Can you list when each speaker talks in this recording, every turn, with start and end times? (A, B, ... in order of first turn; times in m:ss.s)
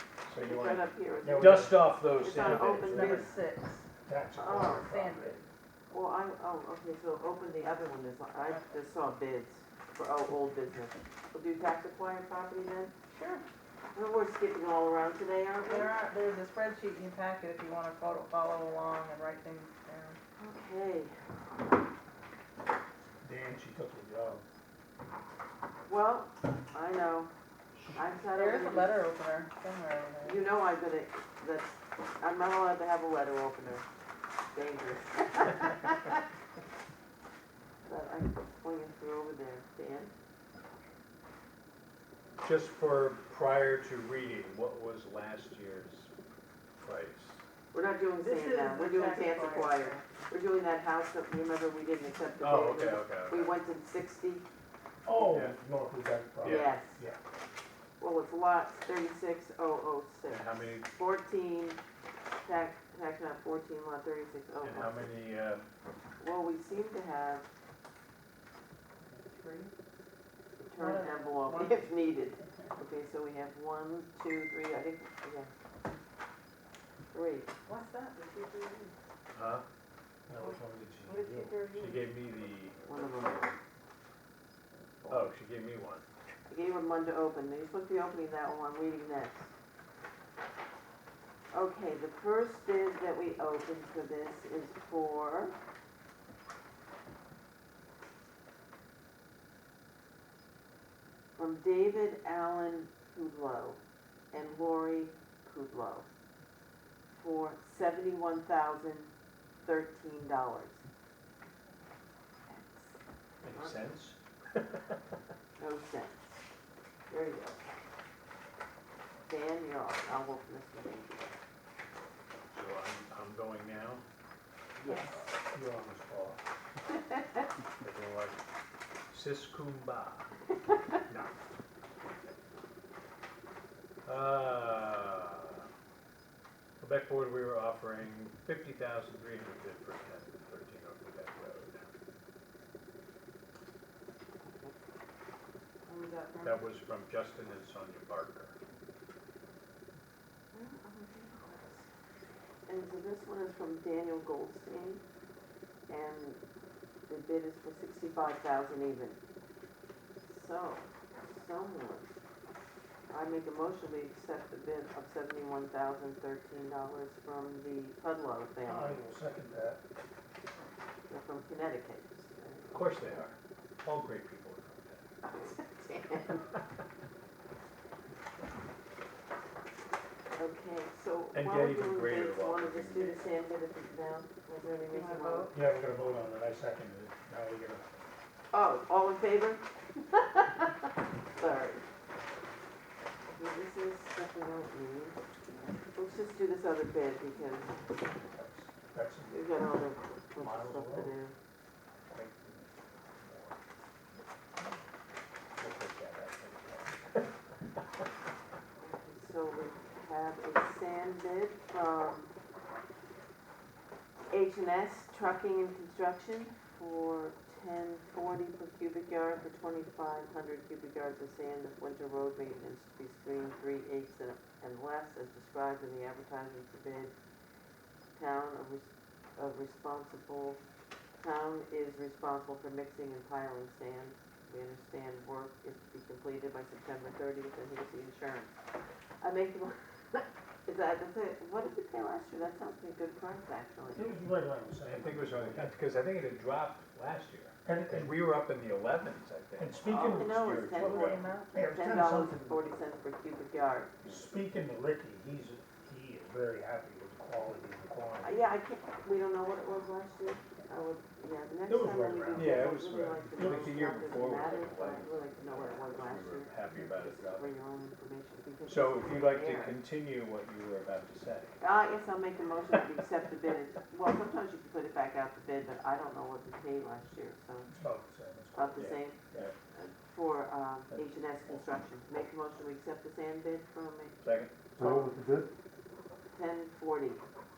0:00.2-0:03.3 A
0:00.4-0:03.3 B
0:01.2-0:01.8 C
0:02.4-0:03.9 D
0:04.0-0:05.4 C
0:04.4-0:04.9 B
0:04.4-0:05.4 D
0:05.9-0:12.9 B
0:13.1-0:13.4 D
0:13.9-0:15.9 B
0:15.6-0:20.2 D
0:20.4-0:21.2 B
0:23.2-0:24.4 C
0:25.9-0:27.3 B
0:27.9-0:29.0 B
0:28.4-0:30.4 D
0:30.2-0:33.9 B
0:34.5-0:36.2 B
0:37.8-0:40.1 B
0:42.4-0:46.1 A
0:46.8-0:47.4 A
0:47.7-0:54.4 B
0:48.2-0:50.0 D
0:52.4-0:53.5 A
0:55.0-0:57.2 C
0:55.1-0:55.6 A
0:56.4-0:56.7 A
0:56.4-0:57.0 B
0:58.0-1:01.8 B
1:00.3-1:00.9 A
1:02.4-1:05.1 B
1:04.6-1:05.7 A
1:06.2-1:07.5 B
1:09.1-1:09.7 D
1:10.6-1:15.5 B
1:10.8-1:11.9 D
1:17.1-1:17.5 B
1:17.6-1:19.0 D
1:19.3-1:19.6 A
1:20.3-1:21.6 C
1:20.4-1:22.1 D
1:21.7-1:23.5 A
1:22.9-1:23.6 B
1:25.1-1:26.0 A
1:26.5-1:29.5 B
1:31.5-1:35.6 B
1:41.4-1:43.8 B
1:44.3-1:46.1 B
1:47.1-1:49.1 B
1:49.6-1:50.8 B
1:52.5-1:53.0 B
1:53.4-1:55.0 A
1:53.5-1:53.8 B
1:55.6-1:56.4 B
1:57.1-1:57.6 B
1:59.3-2:01.4 B
2:02.5-2:04.0 A
2:04.8-2:05.2 B
2:05.2-2:06.4 C
2:07.8-2:08.4 A
2:09.1-2:10.3 A
2:11.1-2:11.4 A
2:14.0-2:15.7 A
2:16.8-2:21.9 A
2:24.5-2:24.7 B
2:25.9-2:26.6 D
2:26.4-2:28.6 A
2:30.5-2:31.9 B
2:32.7-2:35.0 B
2:35.9-2:36.4 B
2:37.1-2:39.2 B
2:40.2-2:42.2 B
2:43.1-2:49.0 B
2:48.6-2:49.8 C
2:51.1-2:52.8 B
2:52.7-2:55.2 A
2:55.2-2:56.4 B
3:00.4-3:05.5 B
3:01.3-3:03.3 A
3:04.9-3:05.6 D
3:05.5-3:08.0 C
3:08.5-3:11.8 B
3:13.3-3:15.2 B
3:16.0-3:17.8 B
3:18.3-3:19.5 C
3:19.3-3:21.4 B
3:20.4-3:21.2 C
3:22.1-3:22.7 C
3:23.2-3:23.5 C
3:25.6-3:27.5 A
3:28.8-3:32.3 B
3:34.3-3:47.1 B
3:48.2-3:50.6 B
3:51.2-3:58.6 B
3:59.2-4:04.2 B
4:03.9-4:05.7 C
4:04.8-4:11.3 A
4:07.6-4:08.2 C
4:09.6-4:10.4 C
4:09.8-4:13.9 B
4:10.8-4:11.5 D
4:11.5-4:12.6 C
4:14.1-4:18.4 C
4:18.2-4:29.8 B
4:21.7-4:22.7 C
4:22.3-4:27.6 A
4:23.4-4:23.8 C
4:28.6-4:31.6 A
4:31.6-4:37.7 B
4:37.7-4:39.5 C
4:38.6-4:39.2 B
4:38.8-4:39.5 A
4:39.7-4:44.2 B
4:44.2-4:44.5 A
4:44.8-4:45.5 C
4:44.8-4:45.1 B
4:46.3-4:47.2 B